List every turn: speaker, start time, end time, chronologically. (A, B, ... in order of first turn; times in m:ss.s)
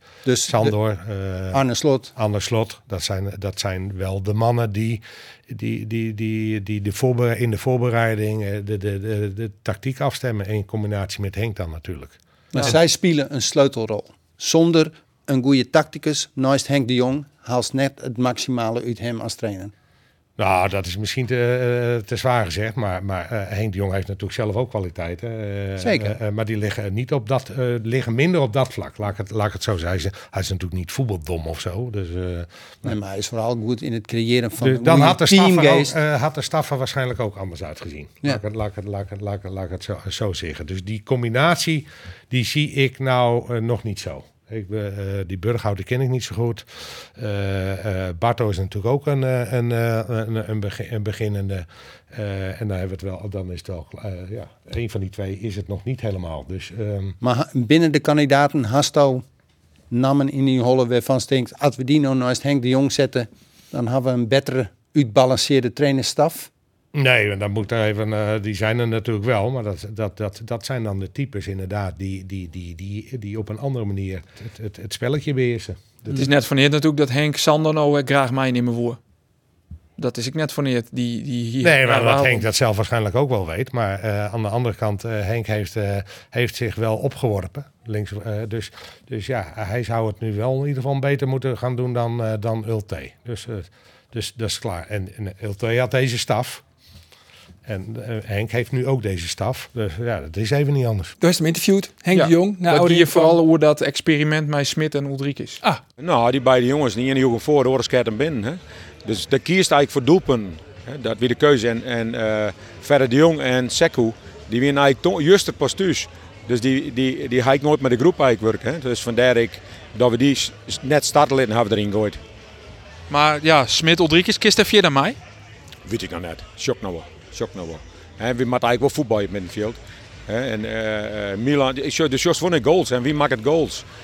0:00.2-0:00.7 A
0:00.4-0:01.6 B
0:01.5-0:02.1 A
0:02.1-0:12.8 B
0:12.5-0:19.7 A
0:20.4-0:32.9 B
0:25.8-0:26.1 A
0:32.8-0:35.9 A
0:34.6-0:57.2 B
0:57.2-0:59.2 A
0:59.9-1:06.5 A
1:06.9-1:16.3 B
1:16.1-1:19.0 C
1:20.0-1:22.4 C
1:21.6-1:36.6 B
1:37.6-1:41.2 B
1:41.2-1:43.4 D
1:42.1-1:45.6 C
1:46.0-2:02.2 E
2:03.1-2:05.2 C
2:05.8-2:13.8 E